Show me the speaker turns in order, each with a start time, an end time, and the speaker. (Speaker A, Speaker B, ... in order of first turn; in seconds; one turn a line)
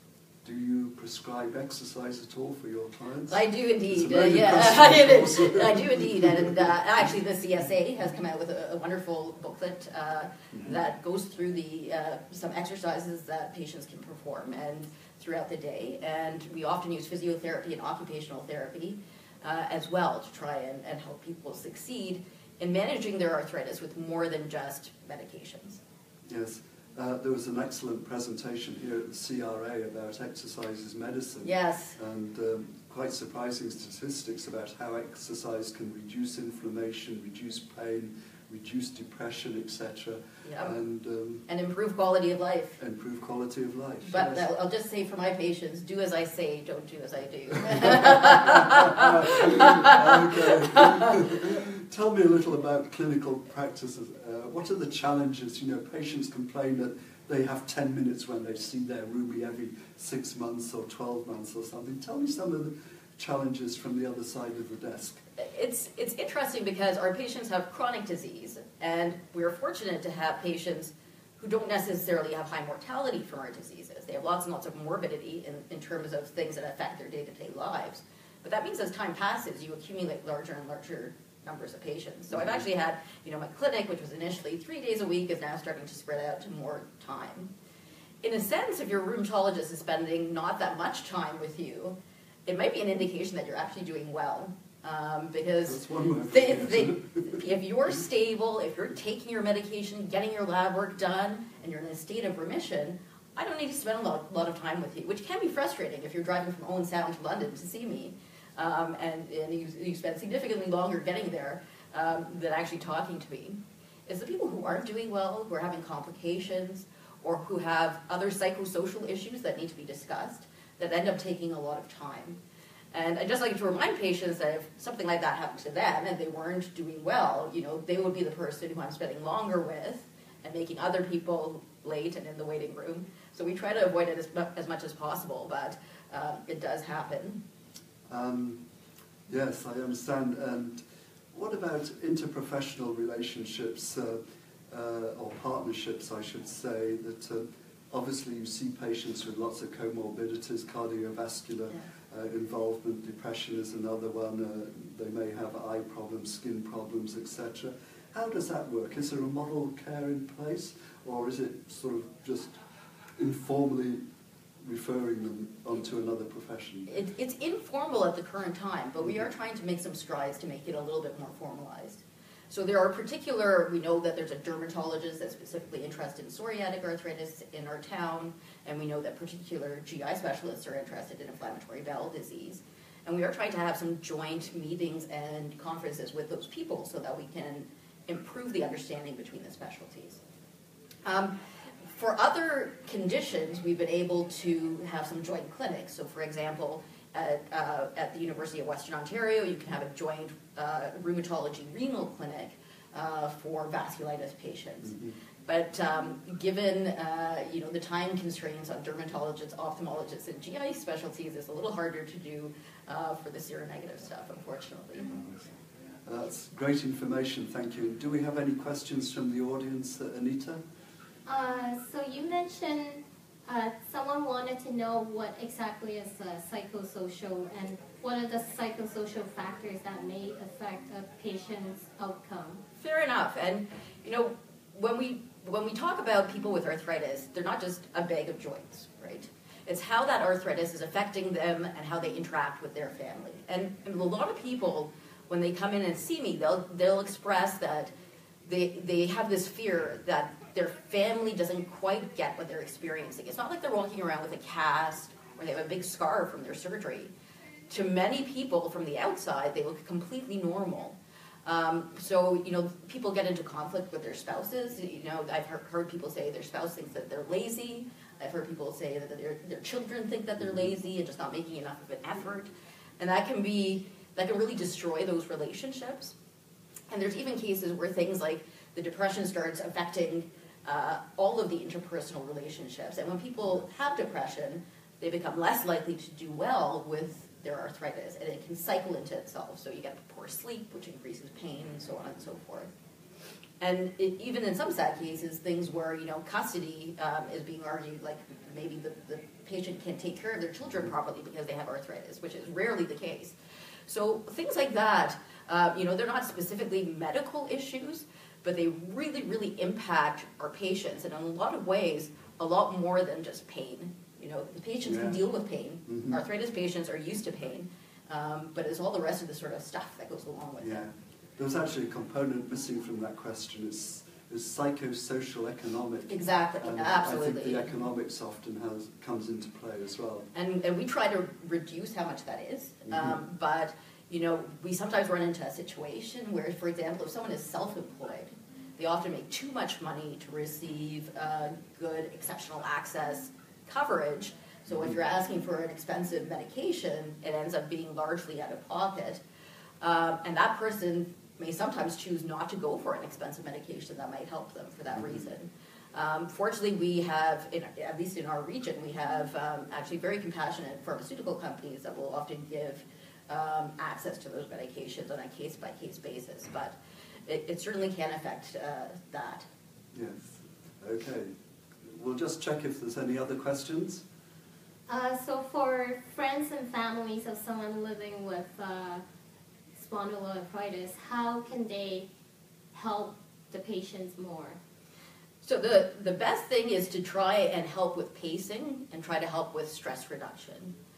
Speaker A: 0.4-6.7
Speaker B: 3.3-25.8
Speaker A: 26.3-41.5
Speaker B: 31.4-32.0
Speaker B: 40.4-40.8
Speaker B: 41.5-42.8
Speaker A: 42.8-44.5
Speaker B: 44.1-51.1
Speaker A: 48.5-65.2
Speaker B: 65.4-87.5
Speaker B: 88.2-122.4
Speaker A: 95.7-97.4
Speaker B: 122.9-137.4
Speaker A: 138.1-138.6
Speaker A: 139.3-140.8
Speaker A: 141.3-162.6
Speaker A: 163.2-164.0
Speaker A: 164.6-166.9
Speaker B: 166.9-190.2
Speaker B: 191.1-191.3
Speaker B: 191.9-215.5
Speaker A: 216.1-220.6
Speaker C: 221.3-232.6
Speaker B: 232.8-247.9
Speaker B: 248.4-257.1
Speaker B: 257.7-276.1
Speaker B: 276.9-292.7
Speaker B: 293.6-303.4
Speaker B: 303.9-320.9
Speaker A: 314.8-315.2
Speaker A: 315.9-316.2
Speaker A: 320.6-330.3
Speaker B: 326.1-327.8
Speaker B: 330.3-349.2
Speaker A: 332.9-333.2
Speaker B: 349.8-369.5
Speaker A: 369.9-371.3
Speaker A: 371.8-374.0
Speaker C: 374.9-379.0
Speaker C: 379.8-382.1
Speaker C: 382.7-384.6
Speaker B: 385.4-390.7